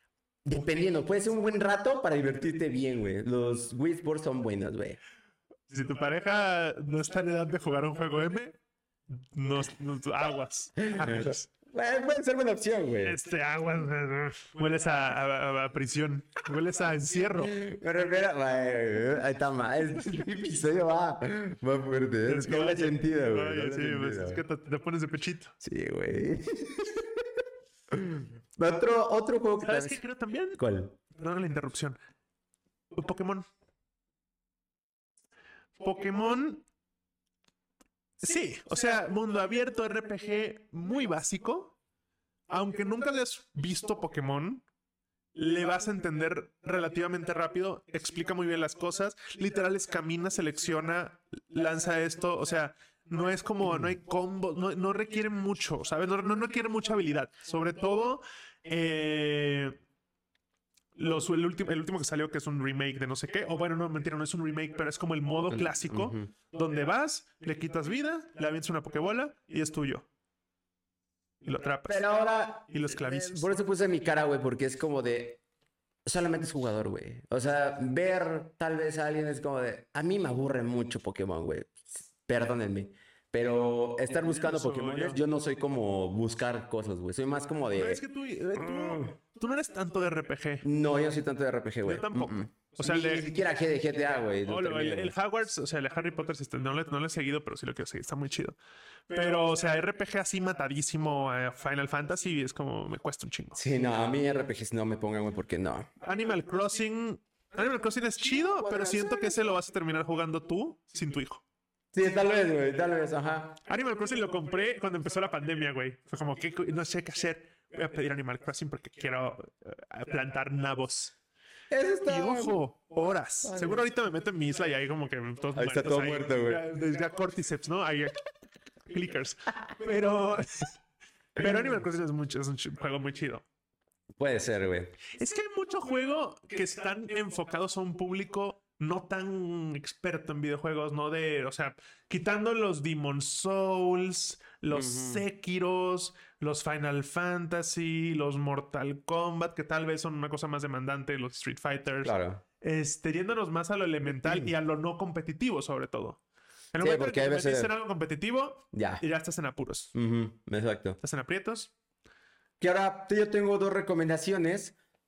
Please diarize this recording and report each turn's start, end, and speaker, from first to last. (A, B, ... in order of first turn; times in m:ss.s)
0:00.4-0:05.0 A
0:05.7-0:08.6 B
0:09.2-0:11.4 B
0:10.8-0:13.2 A
0:13.0-0:17.6 B
0:17.4-0:24.4 A
0:22.3-0:25.6 B
0:25.6-0:27.2 A
0:27.9-0:30.0 A
0:29.6-0:32.0 B
0:30.6-0:31.0 A
0:32.9-0:33.5 B
0:35.8-0:36.6 B
0:38.2-0:41.8 B
0:42.5-0:44.6 B
0:45.4-0:59.8 B
0:53.7-0:53.9 A
1:01.0-1:10.1 B
1:05.5-1:06.3 A
1:11.4-1:12.1 B
1:11.9-1:15.4 A
1:12.7-1:13.5 B
1:16.1-1:28.0 A
1:24.1-1:25.2 B
1:27.8-1:30.6 B
1:28.6-1:29.1 A
1:30.6-1:35.1 A
1:31.8-1:33.3 B
1:34.4-1:38.6 B
1:39.1-1:43.6 B
1:43.6-1:45.9 A
1:46.0-1:51.4 B
1:48.4-1:49.4 A
1:51.9-1:53.6 A
1:53.7-2:01.2 B
2:01.7-2:02.6 A
2:02.0-2:08.2 B
2:03.4-2:03.8 A
2:05.6-2:06.6 A
2:08.9-2:10.8 B
2:11.4-2:13.4 B
2:14.2-2:15.0 A
2:15.1-2:36.2 B
2:24.7-2:25.2 A
2:32.0-2:32.4 A
2:34.2-2:34.5 A
2:36.7-2:39.9 B
2:36.8-2:37.7 A
2:38.7-2:39.0 A
2:39.9-2:41.0 A
2:41.0-2:41.7 B
2:42.6-2:44.8 A